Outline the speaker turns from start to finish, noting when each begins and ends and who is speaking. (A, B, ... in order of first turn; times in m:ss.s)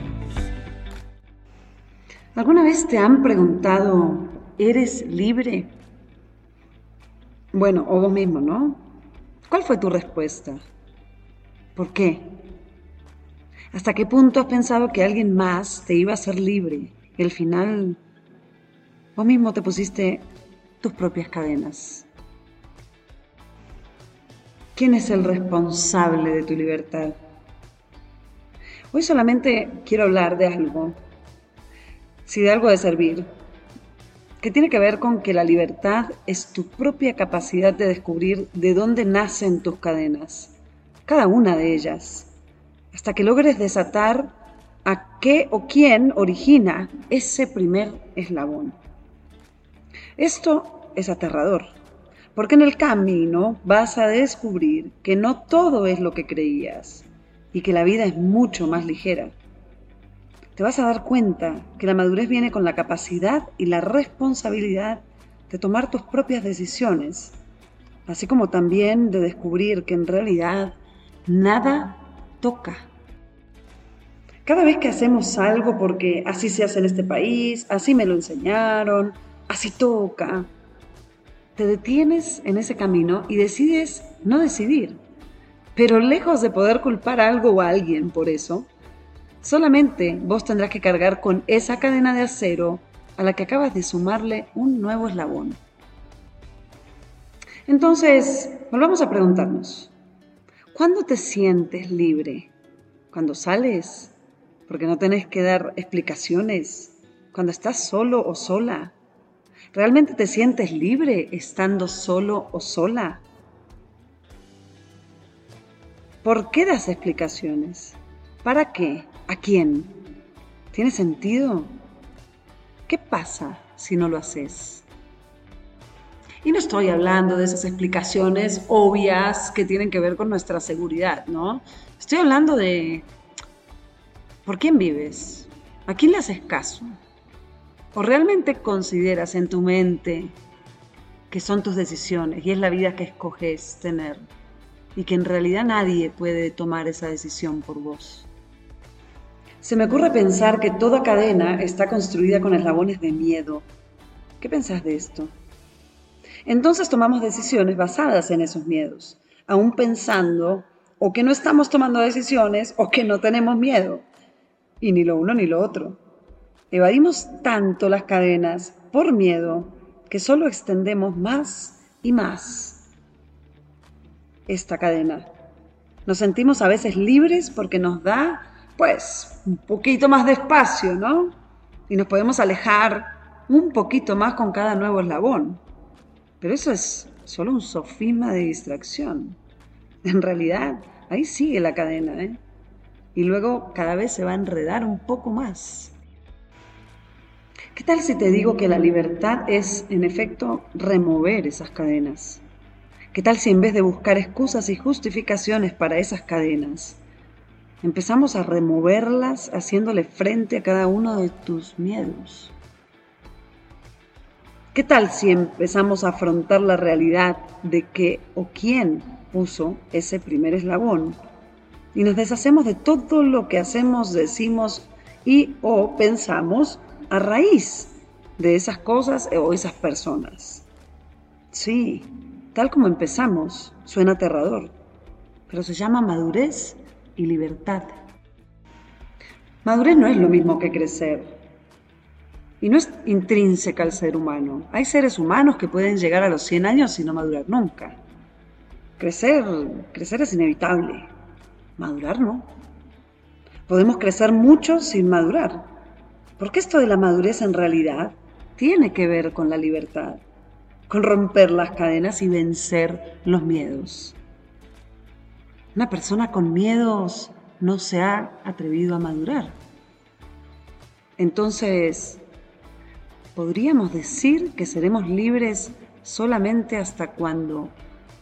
0:02.3-0:05.7 A
0:07.5-0:08.9 A
0:09.5-0:10.6 A
0:11.7-0:12.4 A
0:13.7-0:18.0 A
0:19.2-0:20.3 A
0:20.8-0:22.1 A
0:24.7-0:27.2 A
0:28.9-0:31.0 A
0:32.2-0:33.3 A
0:34.4-0:42.3 A
0:42.9-0:44.3 A
0:44.8-0:48.8 A
0:50.2-0:51.7 A
0:52.3-0:59.4 A
1:00.5-1:07.4 A
1:08.0-1:12.8 A
1:14.4-1:20.5 A
1:21.6-1:25.0 A
1:25.8-1:28.7 A
1:29.4-1:35.6 A
1:37.6-1:39.9 A
1:40.7-1:42.5 A
1:43.1-1:44.1 A
1:44.7-1:49.0 A
1:49.7-1:53.2 A
1:56.2-2:00.0 A
2:00.7-2:01.7 A
2:02.9-2:04.8 A
2:06.4-2:13.0 A
2:14.4-2:16.9 A
2:17.9-2:20.3 A
2:21.3-2:24.2 A
2:24.9-2:28.3 A
2:29.6-2:33.7 A
2:34.4-2:35.3 A
2:36.4-2:44.0 A
2:44.8-2:46.0 A
2:46.7-2:52.9 A
2:54.5-2:55.3 A
2:56.0-3:01.4 A
3:01.9-3:05.6 A
3:06.4-3:09.4 A
3:10.0-3:12.4 A
3:13.1-3:15.9 A
3:17.7-3:22.4 A
3:23.1-3:27.0 A
3:27.8-3:32.5 A
3:34.7-3:41.2 A
3:41.9-3:50.7 A
3:51.5-3:54.7 A
3:55.5-3:58.0 A
3:59.6-4:01.3 A
4:02.6-4:08.0 A
4:09.0-4:11.1 A
4:11.8-4:12.5 A
4:13.7-4:15.7 A
4:16.4-4:20.2 A
4:20.9-4:24.2 A
4:25.7-4:29.6 A
4:31.2-4:32.2 A
4:33.3-4:37.8 A